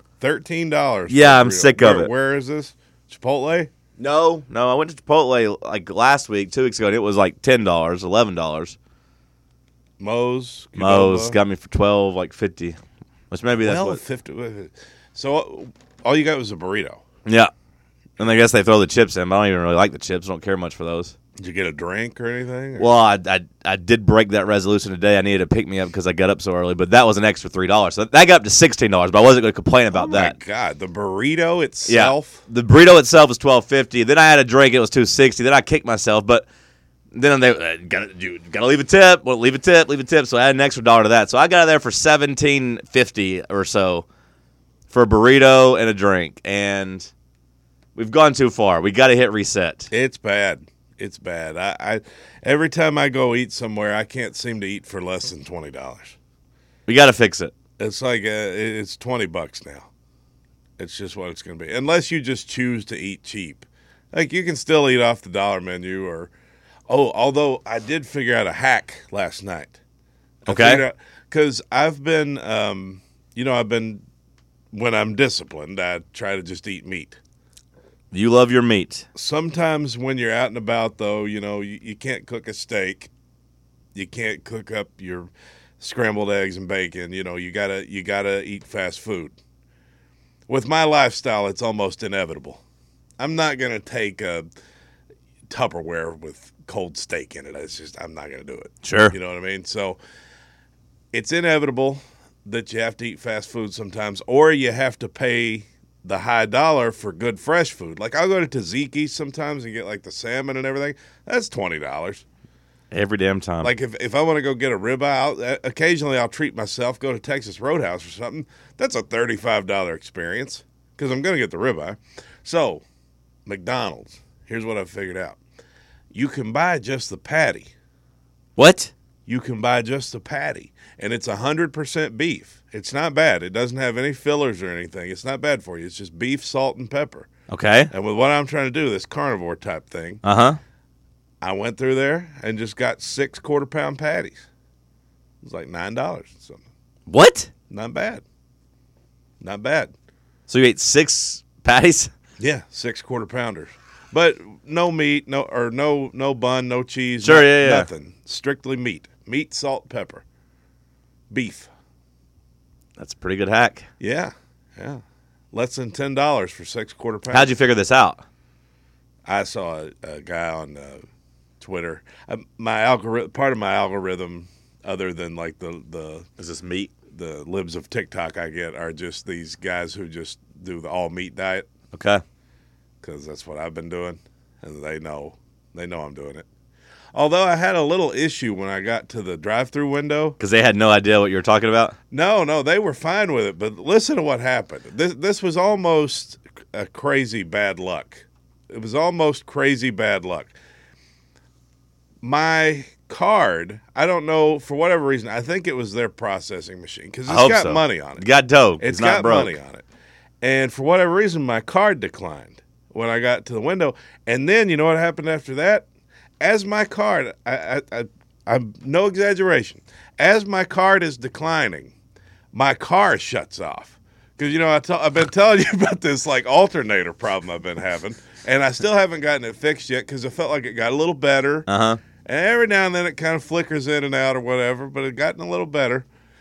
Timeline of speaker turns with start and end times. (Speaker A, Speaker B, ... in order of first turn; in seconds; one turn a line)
Speaker A: 0.2-3.7
Speaker B: 1.1-2.1
Speaker B: 4.0-8.8
Speaker A: 10.0-11.4
Speaker B: 10.8-12.8
Speaker B: 13.3-14.0
Speaker A: 13.6-17.0
Speaker B: 17.2-17.5
Speaker B: 18.2-21.2
Speaker A: 21.4-22.9
Speaker B: 22.8-30.4
Speaker A: 29.9-32.4
Speaker B: 31.9-36.5
Speaker B: 37.1-44.0
Speaker B: 44.9-47.1
Speaker B: 48.0-49.9
Speaker A: 49.9-56.2
Speaker B: 56.9-57.5
Speaker A: 57.8-59.9
Speaker A: 60.8-66.3
Speaker A: 66.9-69.8
Speaker B: 70.5-70.8
Speaker A: 70.5-74.0
Speaker A: 74.7-77.2
Speaker B: 78.1-79.1
Speaker A: 79.2-83.1
Speaker A: 84.0-89.4
Speaker A: 90.5-92.6
Speaker A: 93.2-94.5
Speaker A: 95.5-100.0
Speaker B: 98.8-99.2
Speaker A: 101.1-112.2
Speaker B: 112.9-113.7
Speaker A: 113.6-122.8
Speaker A: 123.5-125.4
Speaker A: 126.1-127.7
Speaker B: 128.6-128.9
Speaker A: 129.3-137.3
Speaker B: 137.5-137.9
Speaker A: 137.9-140.2
Speaker B: 140.2-140.6
Speaker A: 141.4-144.5
Speaker A: 145.4-146.6
Speaker B: 147.1-147.5
Speaker A: 147.7-148.2
Speaker A: 149.4-149.9
Speaker B: 150.5-152.1
Speaker A: 152.4-160.2
Speaker B: 157.2-157.9
Speaker A: 161.3-161.7
Speaker B: 163.0-163.9
Speaker A: 164.0-167.6
Speaker B: 167.3-168.2
Speaker A: 169.2-171.1
Speaker A: 171.6-176.3
Speaker B: 176.4-176.9
Speaker A: 177.1-181.7
Speaker B: 181.9-182.2
Speaker A: 183.0-186.5
Speaker A: 187.1-190.4
Speaker B: 190.4-192.0
Speaker A: 192.1-200.6
Speaker A: 202.2-208.3
Speaker B: 207.3-209.6
Speaker A: 208.8-209.9
Speaker A: 210.4-215.9
Speaker A: 216.4-221.9
Speaker A: 222.5-231.7
Speaker B: 231.7-232.0
Speaker A: 232.2-236.1